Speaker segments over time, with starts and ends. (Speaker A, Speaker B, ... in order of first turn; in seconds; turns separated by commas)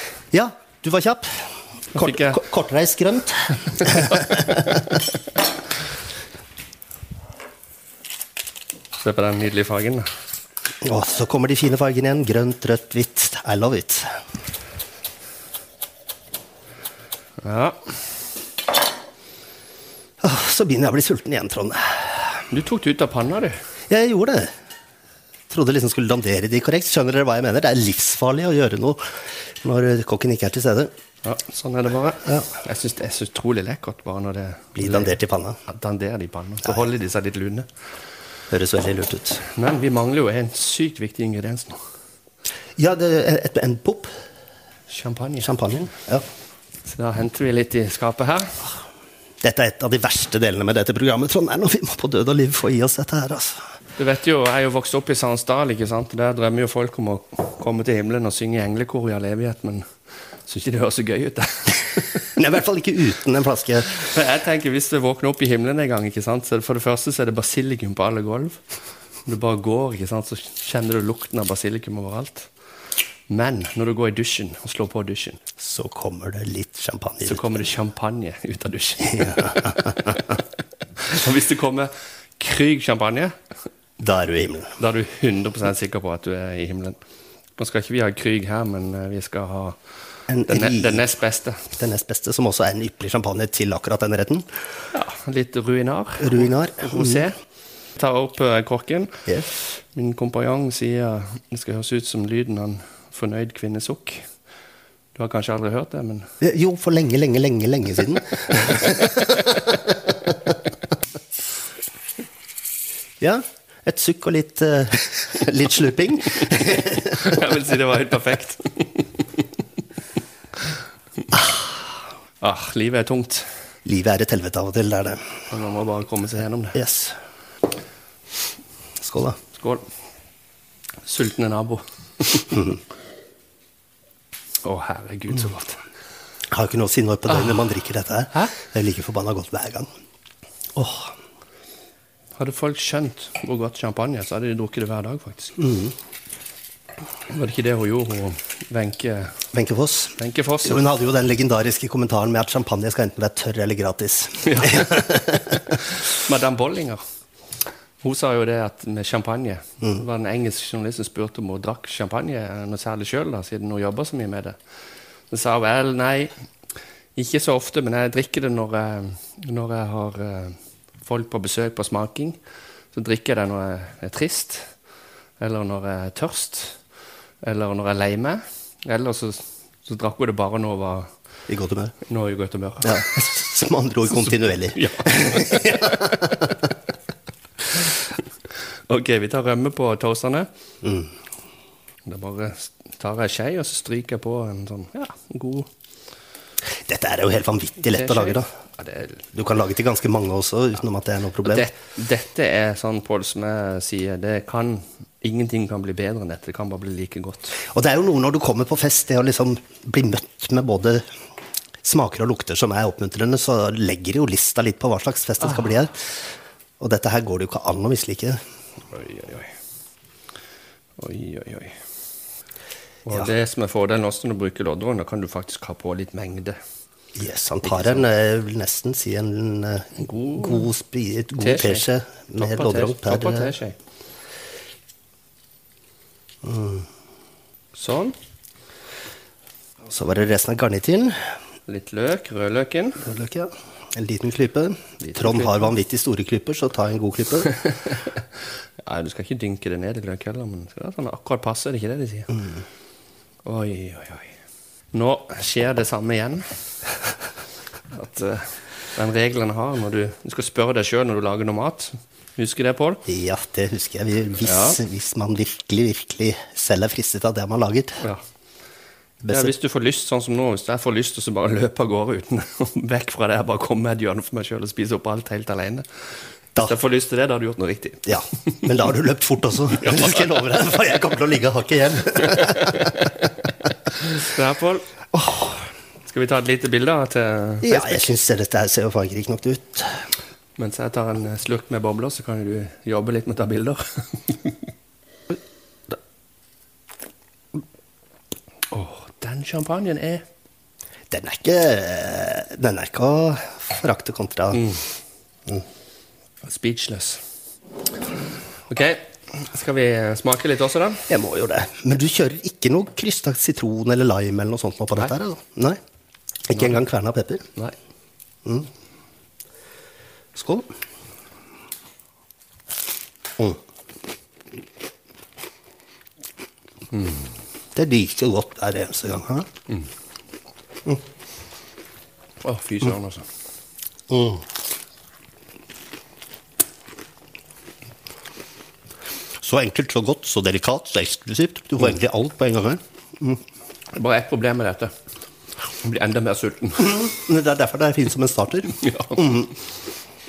Speaker A: 0.3-4.8, Speaker B: 1.9-2.4, Speaker B: 9.0-10.1, Speaker A: 10.8-14.1, Speaker B: 17.4-17.9, Speaker A: 20.2-22.4, Speaker B: 22.5-23.5, Speaker A: 23.9-24.5, Speaker A: 25.5-30.9, Speaker B: 31.2-35.1, Speaker A: 34.8-35.6, Speaker B: 35.7-37.7, Speaker A: 38.5-39.4, Speaker B: 39.5-41.8, Speaker A: 42.8-44.1, Speaker B: 44.9-45.5, Speaker A: 45.4-46.2, Speaker B: 46.9-48.6, Speaker A: 49.4-53.6, Speaker B: 54.0-59.8, Speaker B: 60.5-62.3, Speaker A: 62.4-63.9, Speaker B: 63.9-68.6, Speaker B: 69.2-72.5, Speaker B: 73.3-75.4, Speaker A: 75.6-77.6, Speaker B: 77.2-80.2, Speaker A: 79.0-80.2, Speaker B: 81.0-83.3, Speaker A: 84.0-84.7, Speaker B: 84.8-87.0, Speaker B: 87.6-89.8, Speaker A: 90.3-91.1, Speaker B: 90.5-91.8, Speaker A: 91.8-94.5, Speaker B: 94.9-97.4, Speaker A: 96.2-97.3, Speaker B: 98.0-104.2, Speaker B: 105.1-106.3, Speaker A: 106.4-109.9, Speaker A: 113.2-117.4, Speaker B: 117.0-119.1, Speaker B: 122.4-123.5, Speaker A: 123.8-125.2, Speaker B: 125.5-126.8, Speaker A: 126.7-127.2, Speaker A: 129.0-129.4, Speaker B: 129.5-129.8, Speaker B: 131.0-132.7, Speaker B: 134.6-135.8, Speaker A: 136.5-139.9, Speaker A: 140.8-141.1, Speaker B: 142.3-145.6, Speaker A: 145.6-145.9, Speaker B: 147.3-149.3, Speaker A: 149.5-155.6, Speaker B: 150.2-150.8, Speaker B: 154.4-157.0, Speaker B: 158.0-164.6, Speaker B: 165.3-166.3, Speaker B: 167.2-172.4, Speaker B: 172.9-174.7, Speaker B: 175.4-176.8, Speaker B: 177.4-181.1, Speaker A: 181.5-181.9, Speaker B: 182.0-183.0, Speaker A: 182.8-186.6, Speaker B: 184.7-186.2, Speaker B: 188.9-190.5, Speaker A: 190.8-191.1, Speaker B: 192.1-195.7, Speaker A: 196.8-198.5, Speaker B: 197.9-199.2, Speaker A: 199.3-201.7, Speaker B: 201.4-207.6, Speaker A: 207.7-211.0, Speaker A: 211.8-216.1, Speaker A: 216.8-218.4, Speaker B: 218.9-219.5, Speaker B: 221.0-221.8, Speaker B: 223.0-226.6, Speaker A: 227.2-233.5, Speaker B: 227.6-228.1, Speaker B: 230.0-230.7, Speaker B: 231.4-233.8, Speaker A: 236.4-236.8, Speaker B: 237.7-238.2, Speaker A: 239.9-241.2, Speaker B: 241.7-243.0, Speaker A: 243.0-247.5, Speaker B: 245.0-245.7, Speaker B: 247.6-248.2, Speaker B: 248.8-252.4, Speaker B: 253.4-254.3, Speaker B: 254.9-256.5, Speaker B: 257.9-263.0, Speaker A: 263.1-268.0, Speaker B: 264.4-264.8, Speaker A: 269.2-269.5, Speaker B: 269.3-275.9, Speaker B: 276.6-278.1, Speaker A: 278.1-283.1, Speaker B: 279.8-280.2, Speaker B: 283.9-284.9, Speaker A: 285.1-285.5, Speaker B: 286.1-288.1, Speaker A: 287.6-290.0, Speaker B: 290.6-294.7, Speaker B: 298.7-300.2, Speaker A: 301.1-304.7, Speaker B: 306.4-307.2, Speaker B: 308.7-311.0, Speaker A: 311.1-315.8, Speaker A: 316.5-317.4, Speaker B: 316.5-316.8, Speaker A: 320.3-320.7, Speaker B: 326.9-327.3, Speaker A: 327.7-329.5, Speaker B: 332.4-333.3, Speaker A: 334.1-334.4, Speaker A: 339.4-343.4, Speaker B: 343.9-344.9, Speaker B: 345.8-347.0, Speaker A: 346.8-349.5, Speaker B: 348.8-349.3